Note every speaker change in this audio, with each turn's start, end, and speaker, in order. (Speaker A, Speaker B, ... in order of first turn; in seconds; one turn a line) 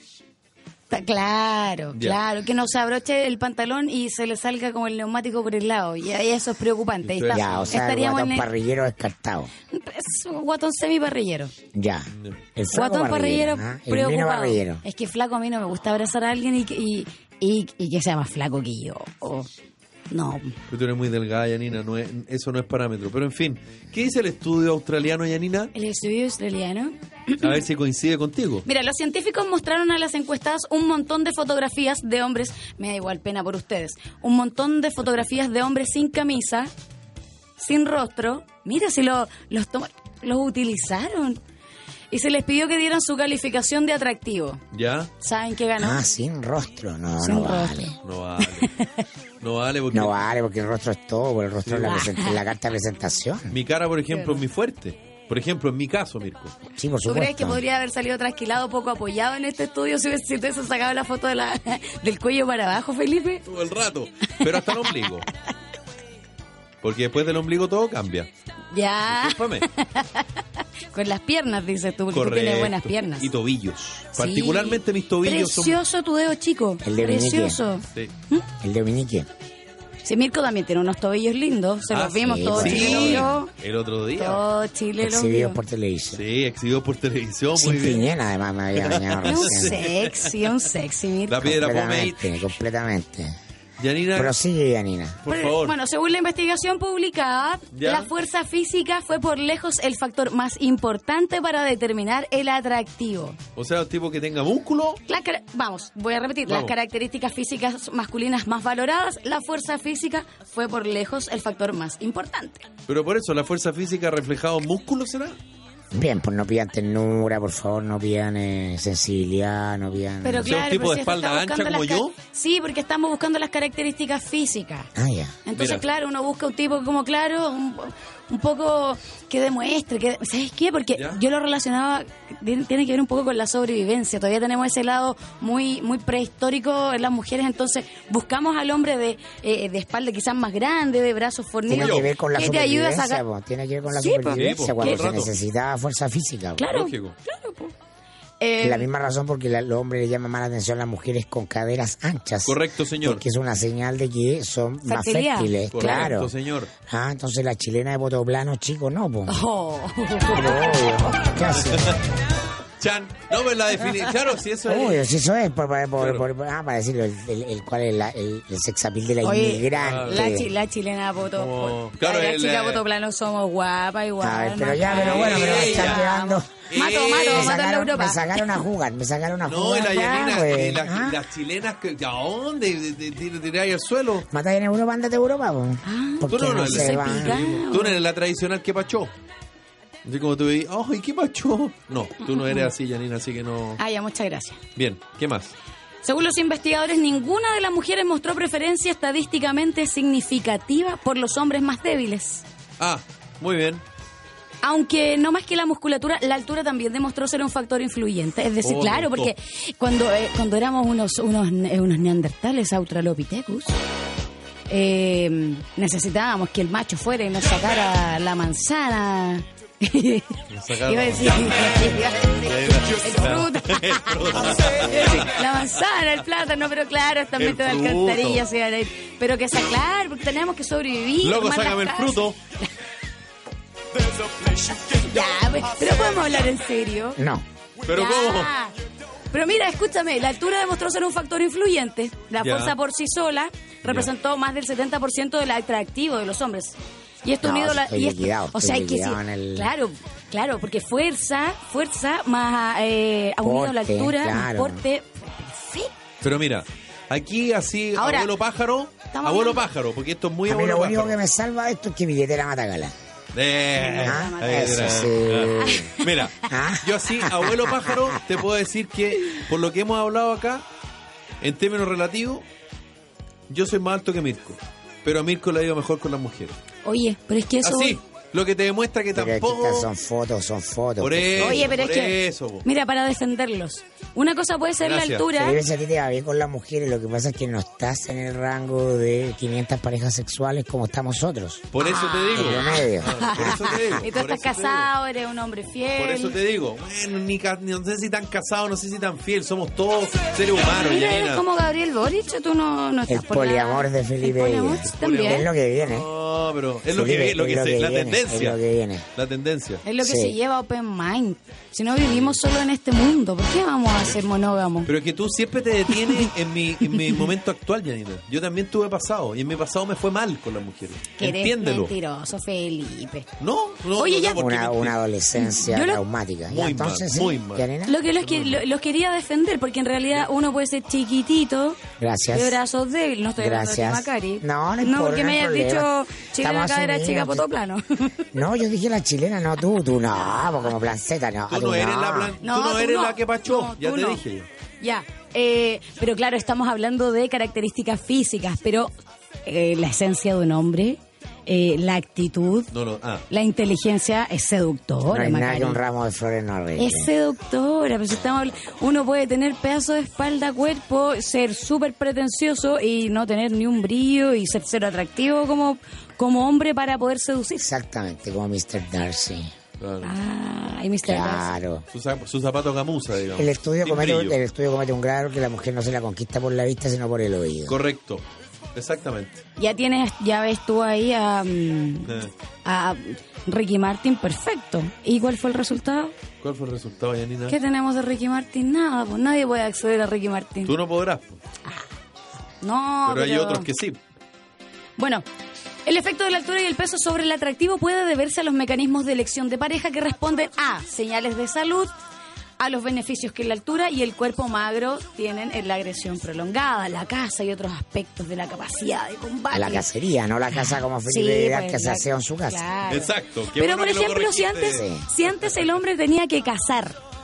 Speaker A: 0.9-8.5
Speaker B: 7.0-7.8
Speaker C: 7.3-9.5
Speaker A: 9.7-11.5
Speaker C: 11.7-14.8
Speaker A: 12.7-19.5
Speaker A: 20.1-20.6
Speaker B: 20.7-25.7
Speaker A: 25.7-27.6
Speaker B: 27.4-28.7
Speaker A: 28.7-36.7
Speaker A: 37.6-41.4
Speaker A: 42.1-44.6
Speaker B: 44.7-45.1
Speaker A: 45.2-46.0
Speaker C: 45.8-48.0
Speaker A: 47.2-47.9
Speaker B: 48.0-48.7
Speaker A: 48.5-49.0
Speaker B: 49.4-50.2
Speaker C: 49.9-53.6
Speaker B: 51.7-52.0
Speaker A: 51.8-52.4
Speaker B: 53.5-56.6
Speaker A: 54.1-54.4
Speaker C: 56.7-57.6
Speaker A: 57.0-63.5
Speaker B: 63.5-65.3
Speaker A: 64.4-65.1
Speaker B: 66.8-68.3
Speaker A: 68.7-73.3
Speaker B: 69.1-69.7
Speaker B: 72.1-75.8
Speaker A: 74.2-78.5
Speaker C: 76.8-77.6
Speaker C: 78.6-79.3
Speaker A: 80.0-83.5
Speaker B: 81.9-84.4
Speaker C: 82.2-83.3
Speaker A: 84.2-85.6
Speaker C: 85.0-86.2
Speaker B: 86.1-88.1
Speaker C: 87.6-89.8
Speaker B: 88.8-90.3
Speaker A: 89.3-91.5
Speaker B: 91.3-92.3
Speaker C: 91.4-93.4
Speaker B: 93.8-94.3
Speaker C: 94.1-95.2
Speaker B: 95.2-95.8
Speaker A: 95.3-103.4
Speaker B: 97.7-98.1
Speaker B: 103.6-105.0
Speaker A: 105.1-112.7
Speaker B: 106.5-106.7
Speaker B: 112.9-115.4
Speaker C: 115.9-120.7
Speaker A: 120.2-124.9
Speaker B: 120.5-122.1
Speaker C: 125.0-125.4
Speaker A: 125.5-143.2
Speaker B: 125.5-125.8
Speaker C: 141.7-146.7
Speaker B: 141.7-142.1
Speaker A: 143.9-145.1
Speaker B: 144.3-145.4
Speaker A: 146.6-147.7
Speaker B: 146.7-147.2
Speaker A: 148.4-148.9
Speaker C: 148.6-156.3
Speaker B: 152.4-153.2
Speaker A: 154.9-156.1
Speaker B: 155.7-156.7
Speaker C: 156.9-159.3
Speaker A: 159.3-161.3
Speaker C: 160.3-162.0
Speaker B: 161.6-162.0
Speaker B: 162.8-165.1
Speaker A: 163.8-164.1
Speaker C: 164.7-170.5
Speaker B: 166.0-166.3
Speaker A: 169.2-178.4
Speaker B: 169.7-170.3
Speaker B: 171.3-172.8
Speaker C: 174.2-176.6
Speaker B: 174.9-176.1
Speaker B: 176.7-177.6
Speaker C: 177.2-181.2
Speaker B: 179.4-184.3
Speaker C: 184.3-187.4
Speaker A: 185.8-188.0
Speaker B: 186.3-189.1
Speaker B: 190.1-193.8
Speaker A: 192.2-192.7
Speaker A: 193.8-194.6
Speaker B: 194.8-195.6
Speaker A: 196.0-202.4
Speaker B: 202.8-203.8
Speaker A: 204.6-213.8
Speaker B: 208.6-209.3
Speaker A: 214.7-232.6
Speaker B: 220.5-225.7
Speaker B: 227.4-228.4
Speaker B: 231.2-232.4
Speaker A: 234.5-237.2
Speaker C: 237.2-237.5
Speaker B: 237.9-238.5
Speaker A: 237.9-238.7
Speaker A: 239.3-255.9
Speaker B: 242.4-242.8
Speaker C: 247.4-249.7
Speaker C: 253.4-254.8
Speaker B: 256.2-261.2
Speaker A: 258.0-258.3
Speaker A: 259.1-259.6
Speaker C: 260.5-262.9
Speaker B: 263.3-270.6
Speaker A: 263.7-265.0
Speaker C: 264.0-265.9
Speaker A: 265.6-266.1
Speaker C: 266.5-268.1
Speaker B: 271.4-272.4
Speaker B: 273.5-276.6
Speaker A: 276.9-278.0
Speaker B: 277.6-279.9
Speaker C: 279.1-281.8
Speaker B: 281.0-282.7
Speaker A: 281.4-285.6
Speaker B: 284.8-285.3
Speaker C: 285.3-293.9
Speaker B: 291.7-294.9
Speaker A: 291.8-296.4
Speaker B: 296.0-301.5
Speaker A: 300.6-305.5
Speaker C: 303.1-306.1
Speaker B: 304.9-308.6
Speaker C: 306.9-309.1
Speaker B: 309.1-309.8
Speaker A: 309.8-314.9
Speaker C: 310.0-310.4
Speaker B: 312.1-312.4
Speaker B: 314.9-321.9
Speaker A: 316.9-317.2
Speaker A: 321.1-323.3
Speaker B: 323.4-325.0
Speaker A: 324.0-324.4
Speaker C: 324.4-328.0
Speaker A: 325.4-326.0
Speaker B: 326.5-327.7
Speaker A: 327.9-338.3
Speaker B: 328.2-328.6
Speaker C: 332.0-332.6
Speaker C: 333.4-337.5
Speaker C: 338.3-342.4
Speaker B: 341.5-344.5
Speaker A: 342.4-344.2
Speaker A: 344.8-348.9
Speaker A: 349.4-352.7
Speaker B: 352.7-353.2
Speaker A: 353.3-355.8
Speaker C: 355.1-357.1
Speaker A: 356.8-367.7
Speaker C: 367.6-369.5
Speaker B: 369.8-370.1
Speaker A: 370.0-371.5
Speaker C: 371.0-371.9
Speaker B: 371.9-374.4
Speaker C: 373.4-377.8
Speaker B: 377.7-378.2
Speaker B: 378.8-379.4
Speaker A: 379.6-386.1
Speaker B: 386.4-387.6
Speaker A: 387.5-390.7
Speaker B: 390.7-391.4
Speaker A: 392.6-393.7
Speaker B: 393.1-394.0
Speaker A: 395.0-395.2
Speaker A: 395.9-401.9
Speaker A: 402.6-409.9
Speaker C: 409.5-412.7
Speaker A: 410.5-417.0
Speaker B: 412.9-415.7
Speaker C: 414.7-415.1